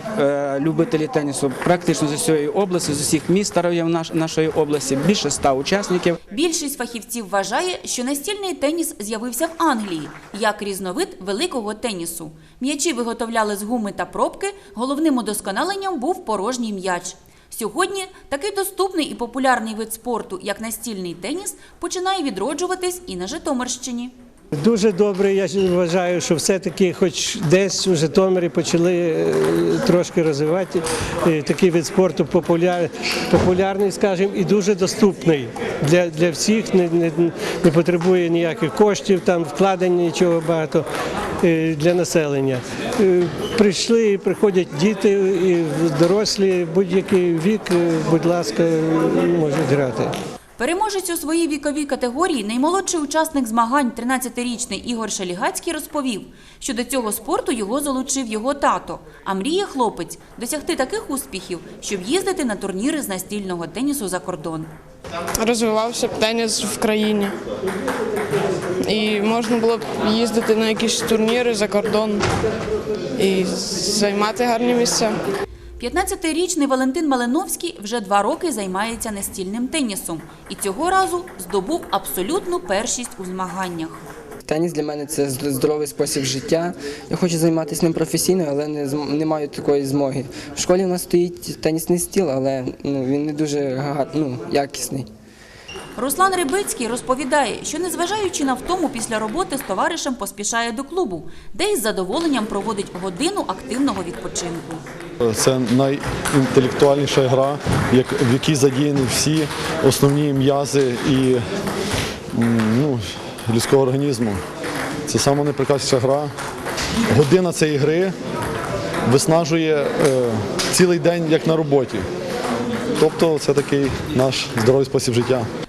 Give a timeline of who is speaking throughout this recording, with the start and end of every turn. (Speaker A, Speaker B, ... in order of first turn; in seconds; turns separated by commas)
Speaker A: 0.2-6.2, Speaker B: 6.3-24.1, Speaker C: 24.6-40.9, Speaker C: 41.4-50.1, Speaker B: 50.6-64.7, Speaker D: 65.4-67.3, Speaker D: 68.8-72.3, Speaker D: 73.2-75.2, Speaker B: 75.8-84.0, Speaker E: 84.5-95.1, Speaker B: 96.0-104.8, Speaker F: 105.2-111.4, Speaker F: 112.3-114.4, Speaker F: 115.1-116.3, Speaker F: 117.1-118.1, Speaker F: 119.0-122.0, Speaker F: 123.0-125.4